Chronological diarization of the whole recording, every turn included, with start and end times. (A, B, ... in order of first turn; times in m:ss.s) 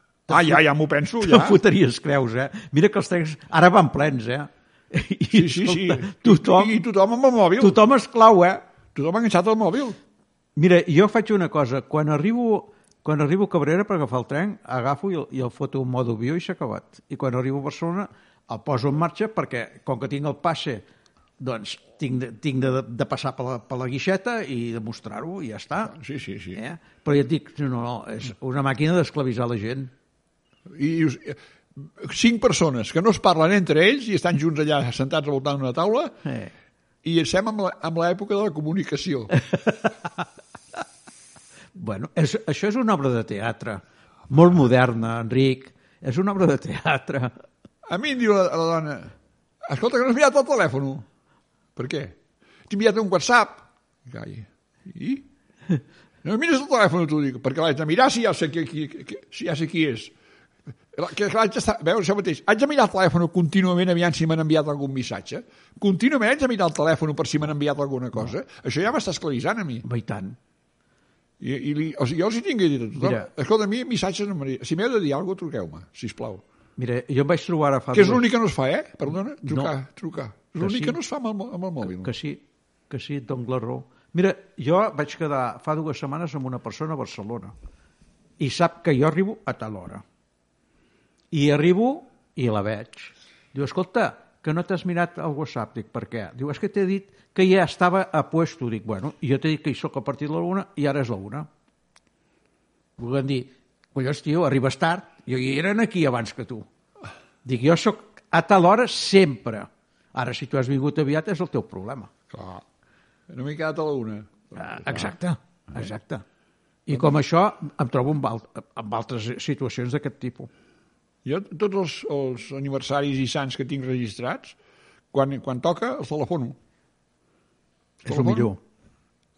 0:00.3-0:00.6 A
0:00.3-0:01.6 B
0:01.2-0:06.8 A
0:05.3-0:07.8 B
0:07.6-0:08.6 A
0:09.0-0:10.0 B
0:10.6-0:20.8 A
0:21.4-0:26.0 A
0:25.9-0:26.6 B
0:26.5-0:29.9 A
0:30.7-0:36.2 B
0:36.2-0:36.5 A
0:37.0-0:39.4 B
0:41.8-0:47.4 A
0:47.9-0:49.1 B
0:49.6-0:51.0 B
0:51.8-0:52.2 B
0:52.7-0:55.2 B
0:56.2-1:00.1 B
1:00.9-1:09.8 B
1:09.8-1:10.4 A
1:11.4-1:16.4 B
1:13.0-1:13.3 A
1:16.8-1:18.3 A
1:17.9-1:22.1 B
1:19.5-1:19.7 A
1:20.6-1:21.0 A
1:21.8-1:27.5 A
1:28.4-1:30.0 A
1:31.3-1:41.5 A
1:43.0-1:46.7 A
1:47.4-1:52.1 A
1:52.3-1:52.6 B
1:53.3-1:55.1 B
1:54.6-1:56.2 A
1:56.9-2:00.5 A
2:01.2-2:04.6 B
2:05.1-2:06.6 B
2:08.0-2:08.5 B
2:08.1-2:08.6 A